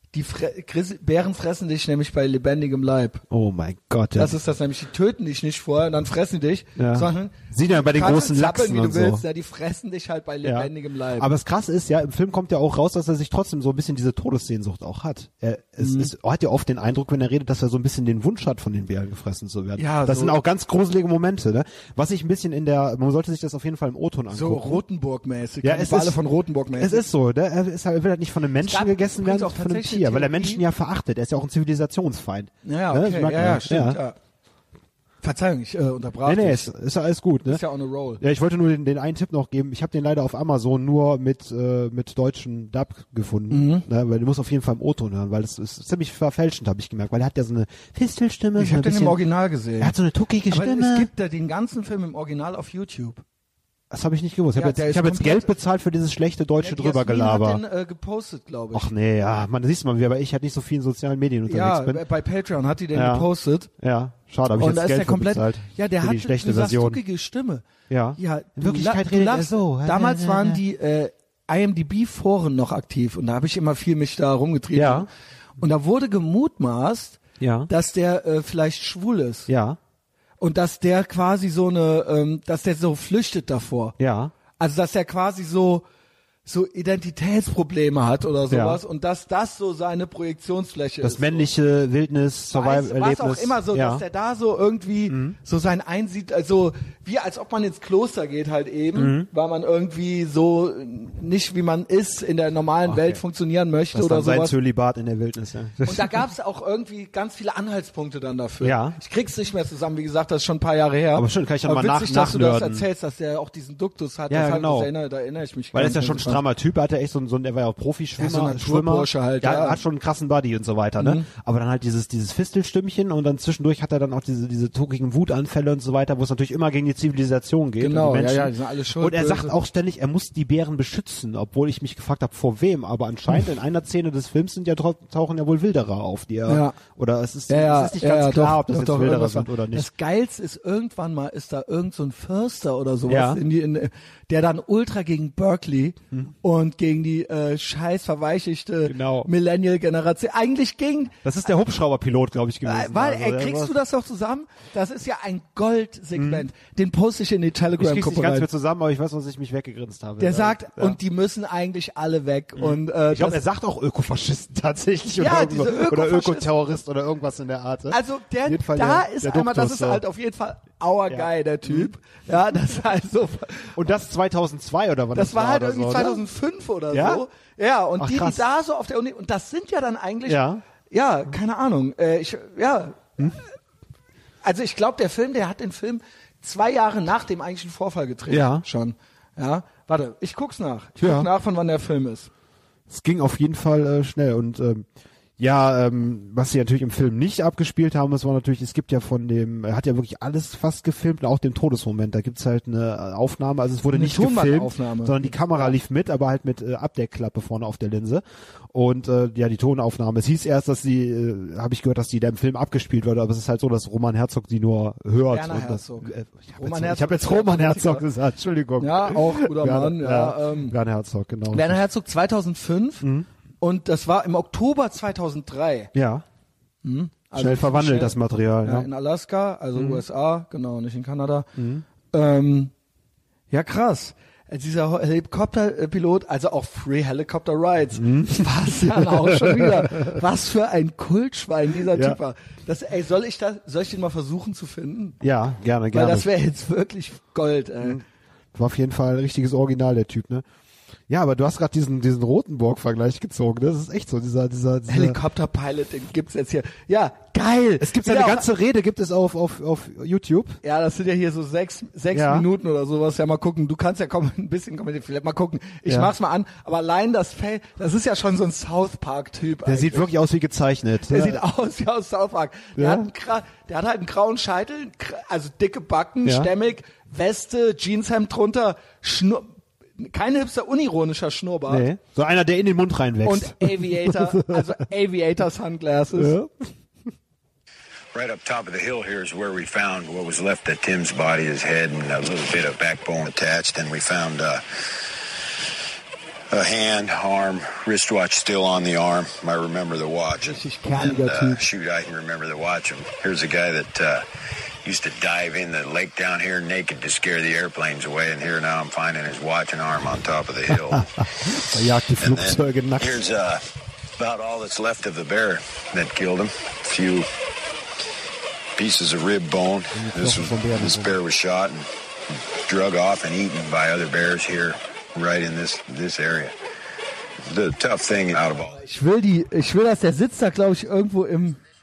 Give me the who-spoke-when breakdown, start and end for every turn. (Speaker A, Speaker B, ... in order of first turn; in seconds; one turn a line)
Speaker A: 0.1-3.2
Speaker B: 3.3-4.4
Speaker A: 4.2-11.3
Speaker B: 6.8-9.2
Speaker B: 10.4-24.8
Speaker A: 15.8-16.1
Speaker A: 19.8-20.4
Speaker A: 24.3-27.1
Speaker B: 25.6-26.2
Speaker B: 26.8-34.0
Speaker A: 28.6-30.6
Speaker A: 32.6-34.2
Speaker A: 35.2-36.7
Speaker B: 36.2-37.6
Speaker A: 37.5-38.2
Speaker B: 38.2-49.2
Speaker A: 43.5-43.9
Speaker A: 48.6-49.9
Speaker B: 49.8-51.1
Speaker A: 50.5-53.2
Speaker B: 53.9-57.6
Speaker A: 54.5-55.5
Speaker A: 56.6-58.9
Speaker B: 58.7-62.0
Speaker A: 61.5-63.7
Speaker B: 62.9-63.3
Speaker B: 63.8-67.0
Speaker A: 64.6-75.1
Speaker B: 67.9-70.6
Speaker B: 74.7-75.1
Speaker A: 75.6-79.5
Speaker B: 77.4-77.7
Speaker B: 79.5-79.8
Speaker A: 80.4-84.0
Speaker B: 84.0-84.3
Speaker A: 84.6-85.8
Speaker A: 86.5-91.5
Speaker B: 88.5-88.8
Speaker B: 91.0-94.0
Speaker A: 92.5-104.5
Speaker B: 95.1-95.4
Speaker B: 99.0-99.3
Speaker B: 102.9-103.2
Speaker B: 103.9-106.2
Speaker A: 105.8-116.4
Speaker B: 108.6-109.0
Speaker B: 111.2-112.8
Speaker B: 114.3-114.9
Speaker B: 115.7-139.9
Speaker A: 118.2-119.8
Speaker A: 121.0-121.3
Speaker A: 127.8-129.5
Speaker A: 136.5-136.8
Speaker A: 137.5-151.2
Speaker B: 143.1-143.4
Speaker B: 148.9-149.3
Speaker B: 151.2-153.8
Speaker A: 152.7-158.5
Speaker B: 156.2-156.5
Speaker B: 157.8-161.0
Speaker A: 160.2-163.4
Speaker B: 162.6-170.0
Speaker A: 165.2-166.5
Speaker A: 167.9-173.8
Speaker B: 171.1-171.9
Speaker B: 173.8-176.2
Speaker A: 175.1-183.4
Speaker B: 176.9-177.2
Speaker B: 178.0-178.4
Speaker B: 180.3-180.6
Speaker A: 184.4-192.3
Speaker B: 188.3-188.7
Speaker B: 191.0-191.3
Speaker B: 192.9-194.9
Speaker B: 195.4-221.8
Speaker A: 203.9-205.7
Speaker A: 215.3-218.0
Speaker A: 218.8-220.8
Speaker A: 221.5-223.1
Speaker B: 223.0-223.3
Speaker A: 223.6-225.9
Speaker B: 225.9-226.2
Speaker A: 226.8-231.5
Speaker B: 227.3-228.9
Speaker B: 229.8-230.0
Speaker B: 231.6-231.8
Speaker A: 232.1-232.7
Speaker A: 233.5-245.2
Speaker B: 238.0-240.2
Speaker B: 241.9-242.2
Speaker B: 245.2-246.3
Speaker A: 245.9-248.0
Speaker B: 248.5-250.4
Speaker B: 251.1-255.2
Speaker A: 254.9-258.4
Speaker B: 257.8-260.6
Speaker A: 260.6-270.1
Speaker B: 262.1-262.5
Speaker B: 265.9-266.1
Speaker B: 269.6-271.4
Speaker A: 271.1-281.9
Speaker B: 272.8-273.1
Speaker B: 276.2-276.5
Speaker B: 281.7-284.7
Speaker A: 283.2-286.4
Speaker B: 286.2-286.7
Speaker C: 288.1-294.6
Speaker C: 296.5-304.2
Speaker A: 300.4-301.6
Speaker C: 304.8-311.5
Speaker B: 310.9-313.2
Speaker C: 312.2-317.3
Speaker C: 318.8-321.9
Speaker B: 319.9-321.2
Speaker C: 322.6-326.6
Speaker C: 327.4-328.8
Speaker A: 328.7-331.6